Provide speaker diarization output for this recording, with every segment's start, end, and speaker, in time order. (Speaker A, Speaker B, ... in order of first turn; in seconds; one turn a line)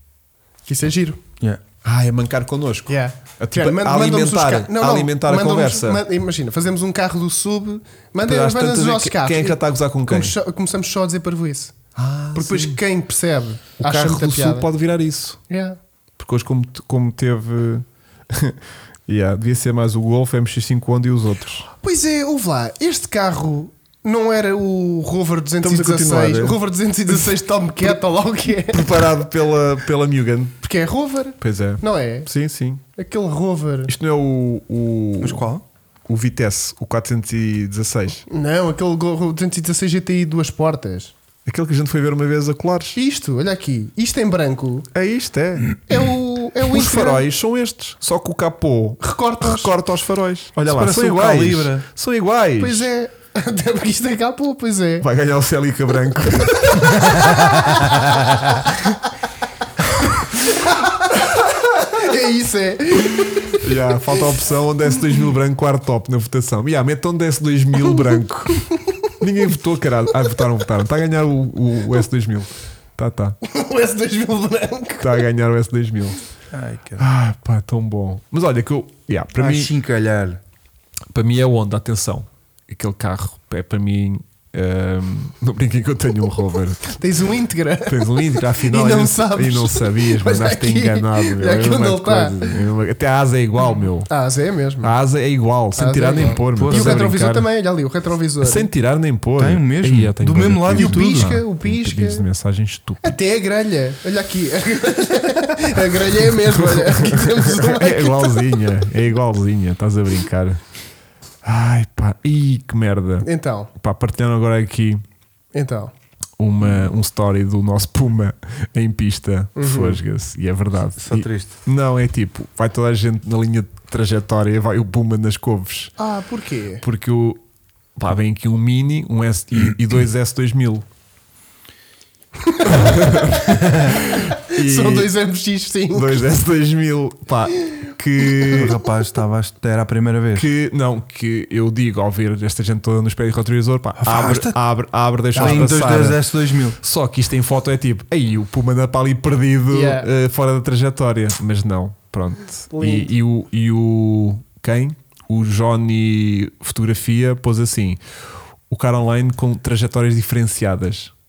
Speaker A: 0.7-1.2
Speaker B: 1.8-6.0
Speaker A: 2.9-11.7
Speaker B: 8.2-10.3
Speaker B: 11.9-12.8
Speaker A: 12.3-14.7
Speaker B: 13.8-15.4
Speaker A: 15.5-15.8
Speaker B: 16.2-21.7
Speaker A: 21.8-28.9
Speaker B: 25.6-26.6
Speaker B: 28.7-30.6
Speaker A: 30.6-32.3
Speaker B: 31.4-32.8
Speaker A: 33.0-33.9
Speaker B: 33.9-35.5
Speaker C: 35.2-35.6
Speaker B: 36.1-38.2
Speaker A: 38.3-41.1
Speaker B: 41.5-43.0
Speaker A: 42.9-44.9
Speaker B: 44.9-45.8
Speaker A: 45.9-47.2
Speaker B: 46.7-52.9
Speaker A: 49.0-49.7
Speaker C: 50.5-51.8
Speaker A: 52.6-55.1
Speaker B: 55.0-57.7
Speaker A: 60.6-61.1
Speaker A: 61.7-63.6
Speaker B: 63.5-73.4
Speaker A: 73.4-75.2
Speaker B: 75.0-76.2
Speaker C: 76.5-77.0
Speaker B: 77.0-79.7
Speaker C: 79.4-80.4
Speaker B: 81.1-87.0
Speaker A: 87.0-92.6
Speaker B: 87.8-94.1
Speaker A: 94.1-94.9
Speaker B: 94.8-97.5
Speaker A: 95.7-98.7
Speaker C: 96.5-97.0
Speaker B: 98.4-103.1
Speaker C: 99.4-101.4
Speaker A: 100.7-102.2
Speaker A: 103.0-108.4
Speaker B: 106.4-110.6
Speaker B: 111.4-115.0
Speaker A: 113.2-113.7
Speaker A: 115.5-115.9
Speaker B: 116.4-125.9
Speaker A: 119.5-120.0
Speaker C: 121.0-121.5
Speaker A: 126.0-126.8
Speaker B: 126.8-127.4
Speaker B: 128.0-130.8
Speaker A: 132.6-136.2
Speaker B: 132.7-135.1
Speaker B: 135.9-138.8
Speaker C: 138.5-140.5
Speaker B: 140.3-146.2
Speaker C: 144.0-144.6
Speaker C: 145.3-146.8
Speaker B: 146.8-158.0
Speaker A: 149.7-150.1
Speaker A: 152.7-153.1
Speaker B: 158.7-161.1